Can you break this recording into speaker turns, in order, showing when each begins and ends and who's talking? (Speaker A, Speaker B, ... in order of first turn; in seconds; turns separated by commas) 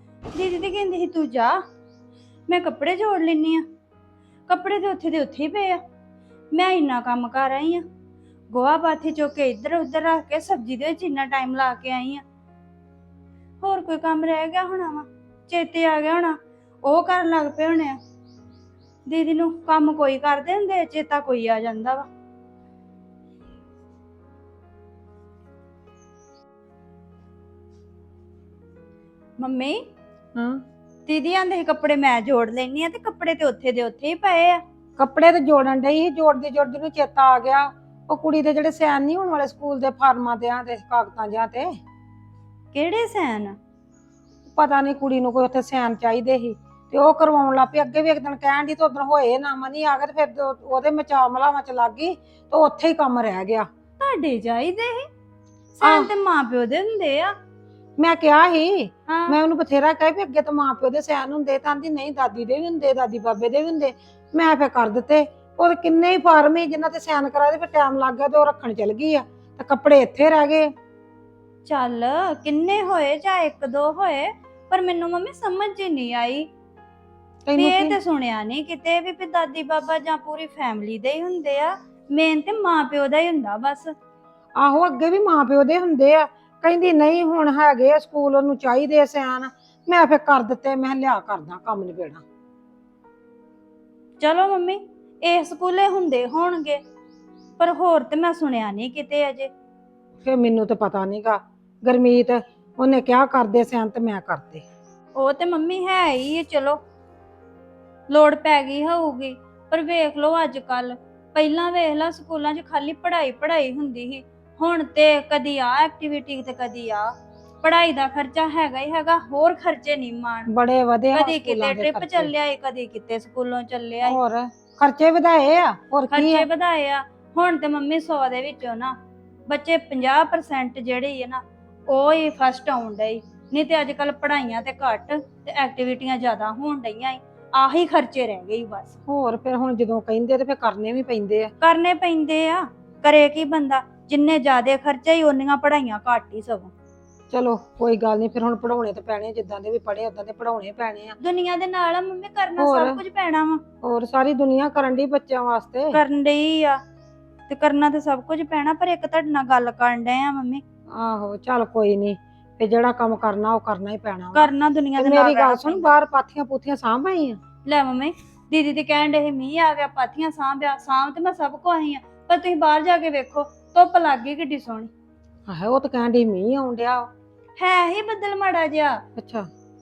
Speaker A: 0.3-1.6, Speaker A: 2.5-3.6, Speaker A: 4.5-5.8, Speaker A: 6.5-7.8, Speaker A: 8.5-12.2, Speaker A: 13.6-18.0, Speaker A: 19.1-22.1, Speaker A: 29.4-29.8, Speaker A: 31.1-34.6, Speaker B: 35.0-41.7, Speaker A: 42.7-43.6, Speaker B: 44.5-53.7, Speaker A: 54.0-55.1, Speaker A: 55.8-57.3, Speaker B: 58.0-70.7, Speaker A: 59.1-59.4, Speaker A: 71.6-76.5, Speaker B: 77.5-77.8, Speaker A: 77.5-83.9, Speaker B: 84.6-92.2, Speaker A: 94.2-96.8, Speaker A: 97.6-99.5, Speaker B: 100.2-104.6, Speaker A: 105.1-106.8, Speaker A: 108.1-120.5, Speaker B: 120.6-122.3, Speaker A: 121.1-124.2, Speaker B: 124.1-126.4, Speaker A: 126.1-129.0, Speaker A: 129.5-138.9, Speaker B: 139.1-141.5, Speaker A: 141.6-146.7, Speaker B: 147.3-151.1, Speaker A: 151.2-153.6, Speaker B: 153.8-155.8, Speaker A: 155.9-156.8, Speaker A: 157.5-160.6, Speaker B: 161.0-164.4, Speaker A: 164.3-165.9, Speaker B: 165.0-167.4, Speaker A: 167.7-174.9, Speaker B: 175.5-177.1, Speaker A: 177.6-179.0, Speaker B: 179.2-179.5